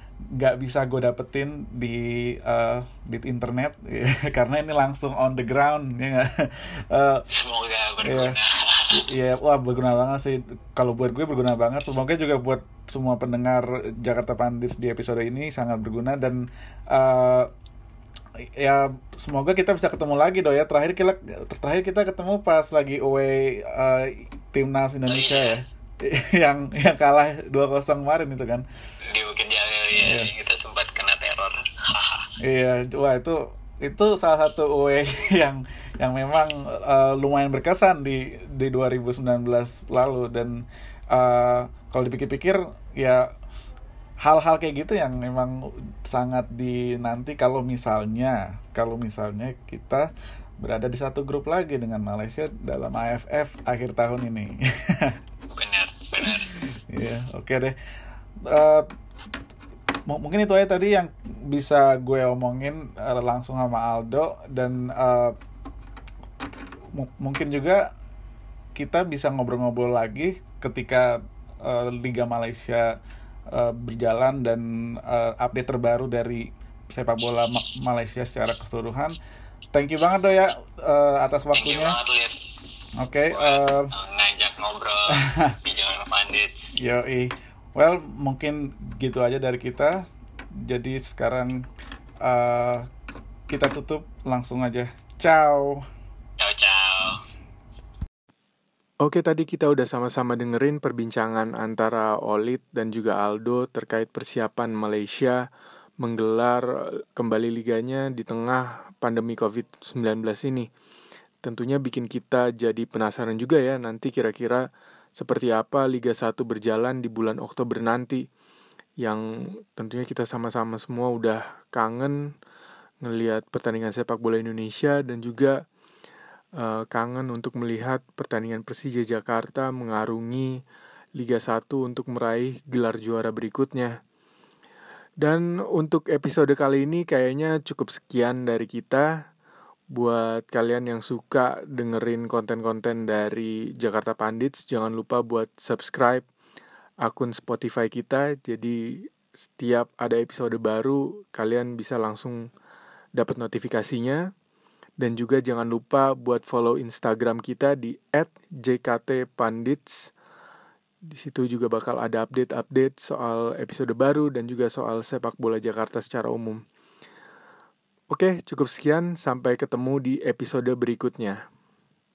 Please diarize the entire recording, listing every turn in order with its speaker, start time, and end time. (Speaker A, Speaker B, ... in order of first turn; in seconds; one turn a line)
Speaker A: 0.4-7.2
Speaker B: 7.3-9.0
Speaker A: 8.0-8.4
Speaker A: 8.9-17.5
Speaker A: 18.6-28.6
Speaker B: 25.1-25.6
Speaker B: 29.1-32.3
Speaker A: 29.9-30.3
Speaker A: 32.4-43.3
Speaker A: 44.2-50.1
Speaker A: 50.6-55.2
Speaker B: 55.5-56.6
Speaker A: 56.2-57.8
Speaker A: 58.4-58.9
Speaker A: 60.1-65.3
Speaker A: 66.9-67.9
Speaker A: 68.8-72.9
Speaker A: 73.5-79.2
Speaker A: 79.7-82.0
Speaker B: 81.5-82.4
Speaker A: 83.0-83.9
Speaker B: 83.3-86.7
Speaker A: 85.1-85.5
Speaker A: 86.8-90.0
Speaker A: 90.6-91.6
Speaker A: 92.2-92.9
Speaker A: 93.5-95.8
Speaker B: 96.4-97.2
Speaker C: 99.0-105.5
Speaker C: 106.0-110.7
Speaker C: 111.4-114.6
Speaker C: 115.2-118.2
Speaker C: 119.0-122.2
Speaker C: 123.0-125.6
Speaker C: 126.6-130.6
Speaker C: 131.2-133.9
Speaker C: 135.2-139.1
Speaker C: 139.9-146.3
Speaker C: 147.0-152.5
Speaker C: 153.2-154.2
Speaker C: 155.0-160.1
Speaker C: 161.1-166.6
Speaker C: 168.1-171.4